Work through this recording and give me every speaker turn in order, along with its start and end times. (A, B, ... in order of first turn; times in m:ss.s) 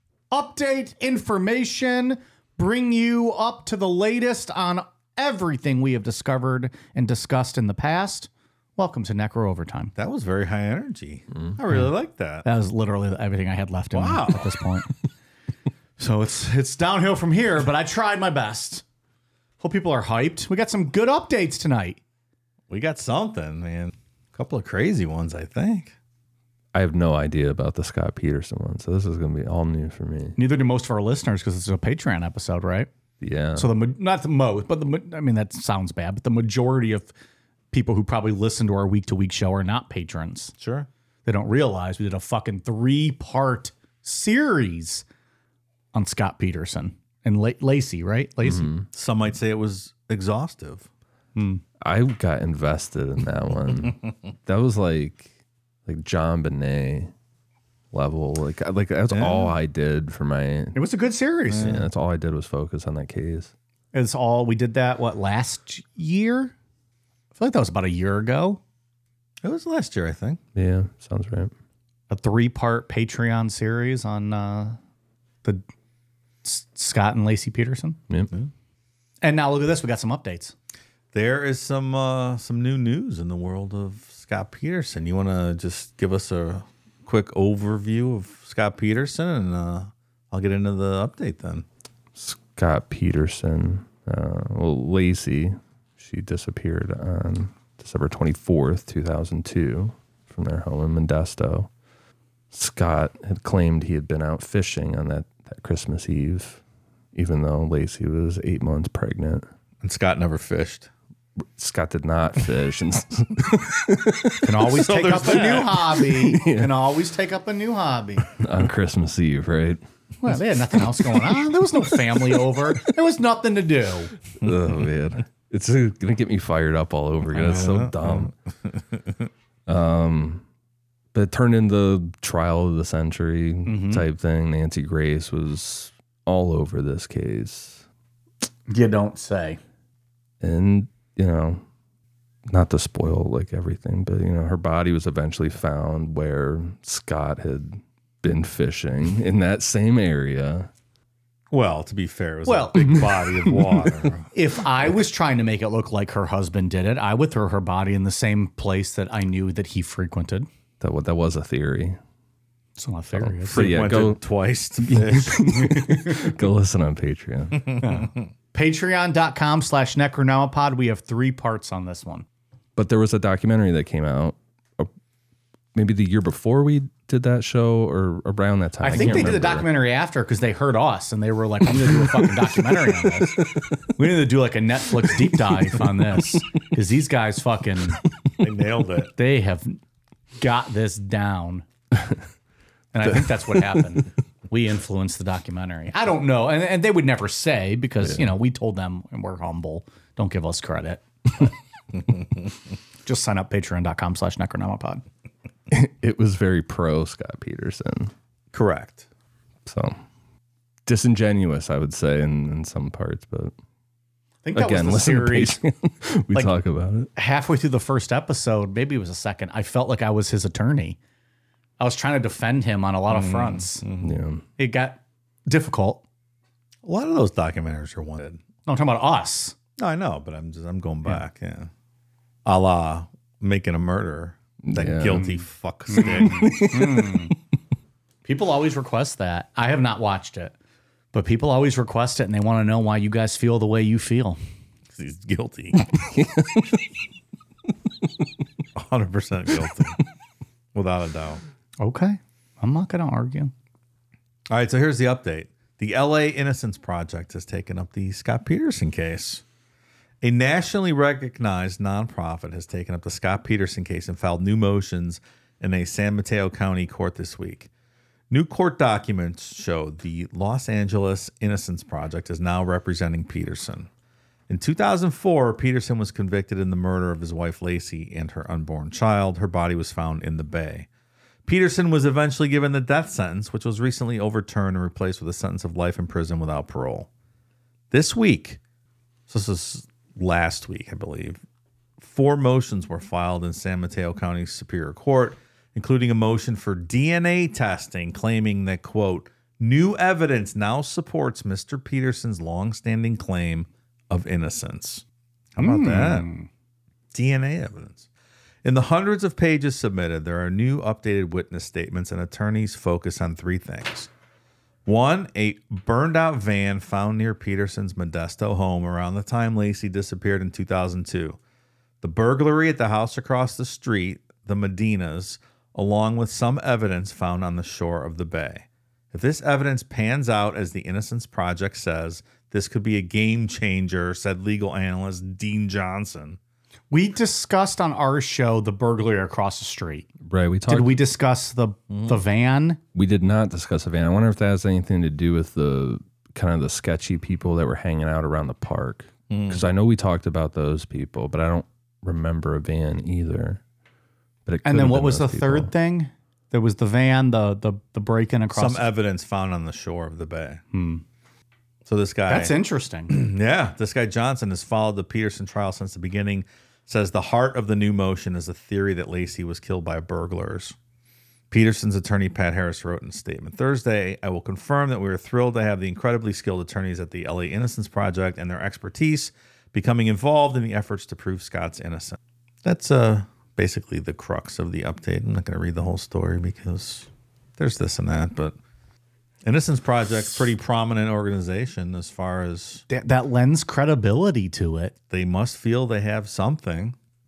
0:00.3-0:09.9 A
0:10.0-0:12.4 B
0:12.4-0:14.9 A
0:13.9-0:14.5 B
0:16.0-0:18.8 A
0:19.6-0:22.0 A
0:22.7-0:25.9 B
0:26.7-0:30.4 C
0:30.4-0:32.9 A
0:33.2-0:33.7 C
0:33.5-0:37.1 A
0:37.7-0:40.5 A
0:40.6-0:40.9 B
0:41.2-0:45.0 A
0:45.9-0:48.7 A
0:48.4-0:48.9 C
0:48.9-0:50.9 B
0:51.4-0:51.6 A
0:51.8-0:55.3 C
0:55.8-0:57.1 C
0:57.9-1:00.8 C
0:59.1-0:59.5 B
1:00.7-1:01.8 A
1:01.5-1:01.8 B
1:01.6-1:03.5 C
1:03.9-1:06.5 A
1:07.4-1:08.6 A
1:09.4-1:10.4 B
1:10.5-1:11.5 C
1:12.1-1:14.8 A
1:16.4-1:18.0 A
1:19.2-1:20.5 A
1:21.1-1:31.6 B
1:32.2-1:41.7 C
1:42.5-1:46.6 C
1:47.1-1:49.4 C
1:49.8-1:50.9 B
1:51.6-1:54.8 C
1:54.4-1:58.3 A
1:54.7-1:55.8 B
1:55.4-1:56.8 C
1:58.3-2:02.9 C
2:00.2-2:04.1 A
2:04.4-2:08.3 C
2:07.3-2:09.0 B
2:09.7-2:10.4 C
2:11.1-2:17.8 C
2:13.6-2:14.0 A
2:18.7-2:19.6 A
2:20.4-2:21.6 C
2:22.5-2:30.7 C
2:31.5-2:34.3 B
2:32.4-2:33.1 A
2:32.9-2:33.9 C
2:34.3-2:40.5 A
2:40.8-2:42.0 C
2:42.8-2:43.7 A
2:43.1-2:44.2 C
2:43.5-2:45.7 B
2:44.8-2:47.8 C
2:45.5-2:46.3 A
2:47.6-2:48.1 B
2:47.8-2:52.2 A
2:52.8-2:54.9 C
2:55.7-2:59.6 C
2:58.8-3:08.0 A
2:58.9-2:59.2 B
3:01.8-3:03.6 C
3:05.0-3:06.2 C
3:08.4-3:09.1 B
3:09.2-3:09.8 A
3:10.4-3:11.6 A
3:12.9-3:21.5 A
3:13.2-3:13.8 C
3:18.0-3:18.3 C
3:23.0-3:25.0 A
3:25.7-3:28.1 C
3:28.5-3:29.0 B
3:29.6-3:30.0 C
3:30.8-3:33.5 C
3:34.4-3:35.6 A
3:34.5-3:37.1 C
3:37.1-3:41.0 A
3:41.8-3:43.8 A
3:43.1-3:44.1 B
3:44.0-3:44.4 C
3:44.6-3:46.0 A
3:46.8-3:48.4 B
3:48.6-3:49.5 A
3:49.8-3:51.7 B
3:52.4-3:56.6 B
3:54.6-3:55.4 C
3:55.9-3:57.3 A
3:56.0-3:57.2 C
3:58.2-4:00.5 A
4:01.1-4:04.4 A
4:04.9-4:05.9 B
4:05.8-4:06.7 C
4:08.8-4:10.0 B
4:10.7-4:11.4 B
4:11.8-4:13.5 A
4:14.5-4:19.4 B
4:20.2-4:27.7 B
4:28.3-4:33.9 B
4:34.5-4:40.9 B
4:41.4-4:47.1 B
4:47.9-4:48.6 B
4:49.3-4:51.4 B
4:52.0-5:05.0 B
5:05.6-5:06.3 B
5:05.6-5:06.5 A
5:07.1-5:08.0 B
5:08.6-5:14.1 B
5:14.8-5:21.4 B
5:22.0-5:36.4 B
5:36.9-5:40.1 A
5:40.2-5:41.0 C
5:40.7-5:42.8 A
5:41.9-5:42.2 B
5:42.9-5:53.6 C
5:49.3-5:49.6 B
5:54.4-5:55.7 C
5:54.6-5:58.9 A
5:58.5-6:00.6 B
6:00.7-6:01.0 A
6:01.8-6:02.6 B
6:02.3-6:03.1 A
6:03.1-6:10.7 B
6:11.5-6:28.6 B
6:29.4-6:32.8 B
6:32.9-6:34.9 A
6:35.1-6:37.0 B